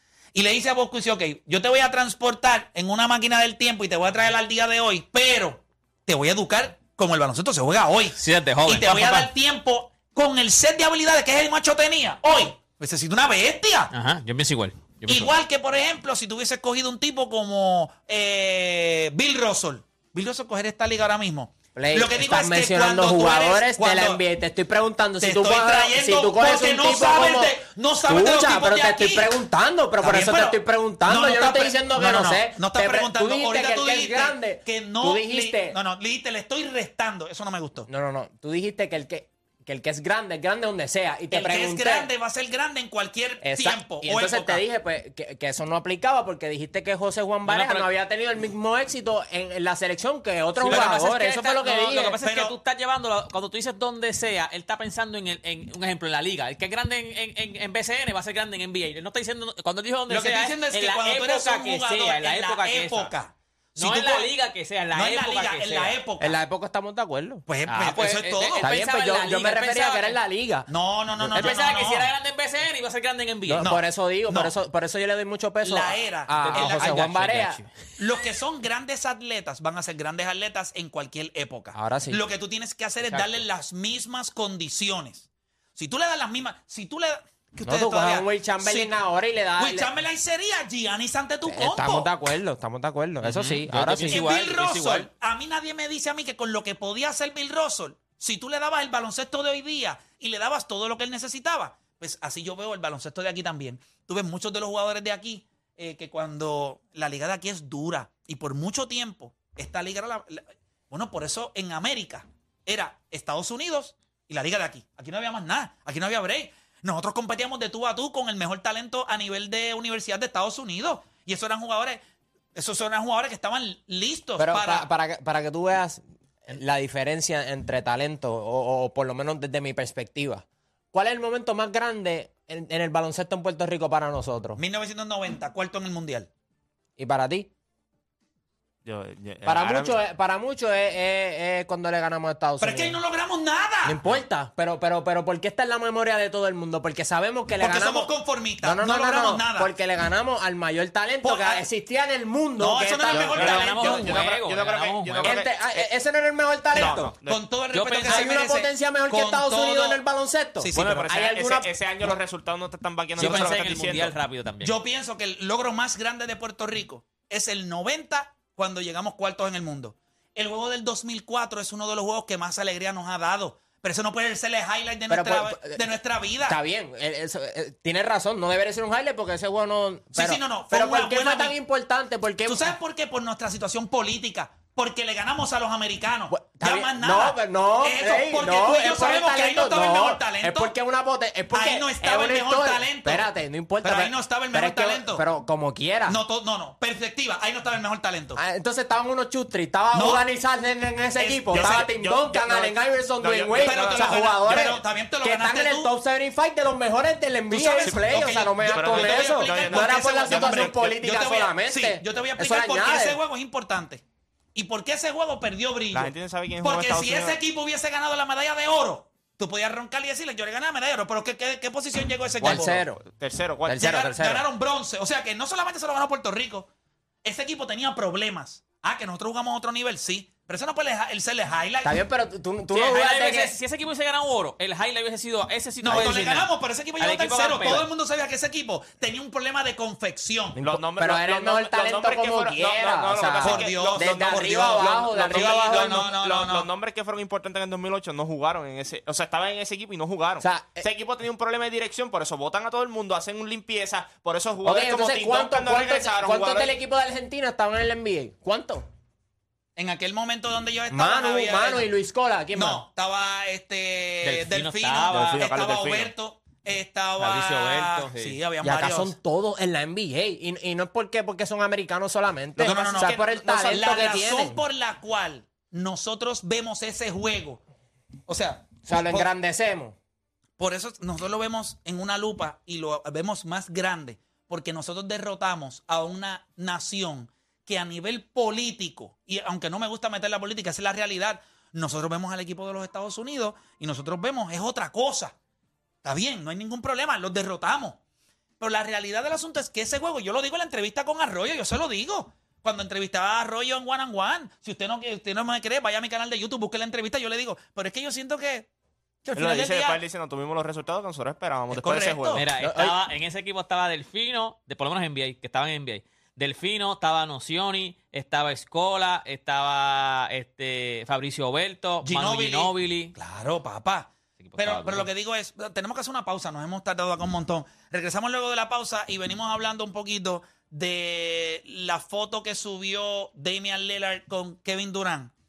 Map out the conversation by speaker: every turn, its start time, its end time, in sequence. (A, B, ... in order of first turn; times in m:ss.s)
0:00.3-0:13.9 A
0:08.2-0:09.3 B
0:13.9-0:15.3 B
0:15.1-0:24.2 A
0:21.8-0:35.8 C
0:25.2-0:29.3 A
0:30.0-0:37.9 A
0:37.9-0:42.1 C
0:41.3-0:44.6 A
0:43.4-0:52.2 C
0:47.5-0:47.9 B
0:50.6-1:03.1 B
0:50.7-0:50.9 A
0:52.2-0:52.5 A
1:00.1-1:04.3 A
1:03.8-1:06.0 B
1:04.9-1:06.4 A
1:06.2-1:07.4 C
1:07.5-1:08.7 A
1:07.7-1:10.2 B
1:08.6-1:11.5 C
1:10.7-1:12.1 A
1:11.3-1:13.7 B
1:13.5-1:17.6 C
1:13.6-1:14.5 A
1:15.6-1:17.1 A
1:16.3-1:17.7 B
1:18.0-1:29.0 A
1:21.7-1:22.2 C
1:23.1-1:23.4 B
1:27.6-1:29.9 C
1:29.6-1:32.1 A
1:31.5-1:34.3 C
1:33.2-1:35.1 B
1:34.1-2:02.0 A
2:02.6-2:04.9 A
2:04.4-2:14.6 C
2:14.6-2:16.3 A
2:17.0-2:17.5 C
2:18.9-2:20.0 D
2:19.4-2:23.0 C
2:22.6-2:24.0 A
2:23.8-2:33.6 C
2:27.6-2:29.7 A
2:31.2-2:31.6 A
2:32.6-2:34.2 A
2:33.1-2:35.8 D
2:33.4-2:35.4 B
2:35.2-2:37.1 C
2:36.7-2:37.4 D
2:36.7-2:40.0 A
2:37.7-2:38.3 B
2:38.0-2:41.7 C
2:40.6-2:41.1 A
2:40.8-2:44.1 D
2:43.2-2:44.8 B
2:44.6-2:56.6 A
2:55.1-2:55.8 C
2:56.5-3:02.8 C
3:00.2-3:01.5 A
3:02.5-3:10.7 A
3:06.3-3:16.2 C
3:11.5-3:13.3 A
3:13.8-3:15.2 A
3:16.1-3:18.4 A
3:18.4-3:33.2 C
3:19.9-3:20.2 A
3:21.2-3:21.9 A
3:21.5-3:24.3 D
3:23.6-3:25.9 A
3:27.5-3:34.0 A
3:27.5-3:31.0 D
3:34.6-3:42.8 A
3:35.9-3:37.4 D
3:42.4-3:43.1 C
3:43.2-3:44.0 D
3:43.7-3:44.4 C
3:43.8-3:46.7 A
3:47.2-3:52.0 A
3:51.8-3:53.5 C
3:52.7-3:57.9 B
3:55.8-4:00.6 A
4:00.6-4:06.1 C
4:00.6-4:16.7 D
4:03.4-4:06.7 A
4:10.4-4:10.9 C
4:14.6-4:18.9 C
4:19.8-4:21.9 A
4:20.9-4:22.8 C
4:22.6-4:29.1 A
4:24.2-4:25.4 B
4:25.1-4:26.1 D
4:27.2-4:28.4 B
4:28.6-4:34.6 C
4:32.6-4:33.8 D
4:32.6-4:37.6 A
4:38.3-4:39.3 A
4:38.9-4:40.0 C
4:40.6-4:55.4 A
4:56.0-4:58.0 A
4:58.6-5:08.7 A
5:09.2-5:10.0 A
5:09.4-5:12.4 D
5:11.7-5:12.4 A
5:12.4-5:23.2 B
5:12.6-5:13.0 C
5:22.0-5:35.3 A
5:24.4-5:25.1 B